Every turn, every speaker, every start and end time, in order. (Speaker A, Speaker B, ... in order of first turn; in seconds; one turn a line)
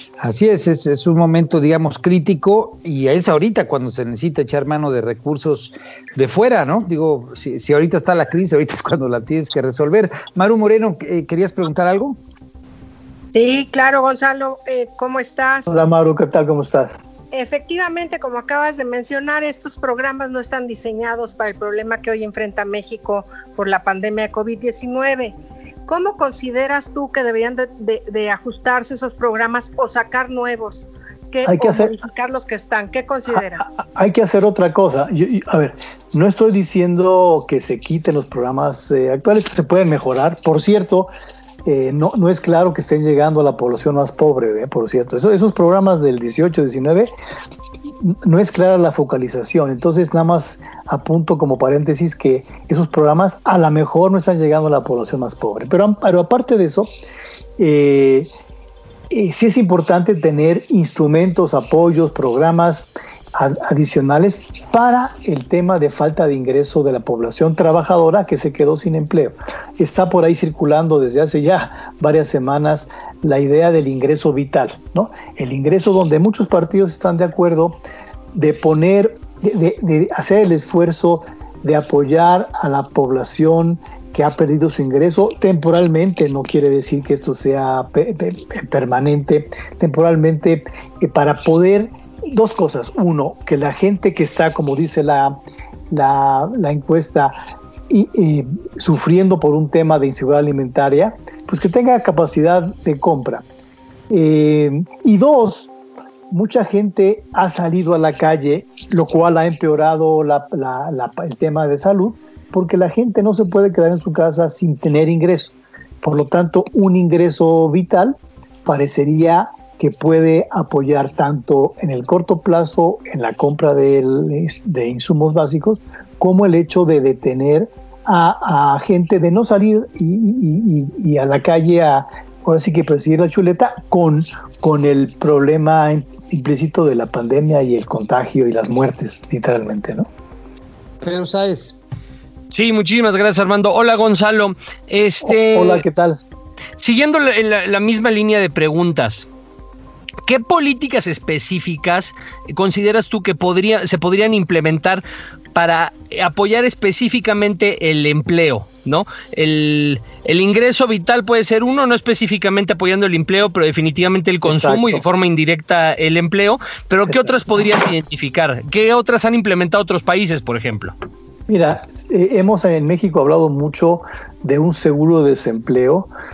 Speaker A: 0.2-12.2
Speaker B: 13.3-15.7
Speaker C: 15.7-17.0
Speaker B: 17.3-25.3
Speaker B: 25.9-33.6
Speaker C: 31.4-32.0
Speaker C: 33.6-41.1
Speaker C: 41.6-47.1
Speaker C: 48.0-56.9
Speaker C: 57.6-58.3
Speaker C: 59.1-77.8
Speaker C: 78.3-103.4
Speaker C: 104.1-105.7
Speaker C: 106.3-140.1
Speaker A: 141.0-141.7
Speaker D: 142.5-145.8
Speaker C: 145.2-146.2
Speaker D: 146.8-149.2
Speaker D: 150.2-170.9
Speaker C: 164.4-165.0
Speaker C: 167.1-167.4
Speaker C: 171.5-176.1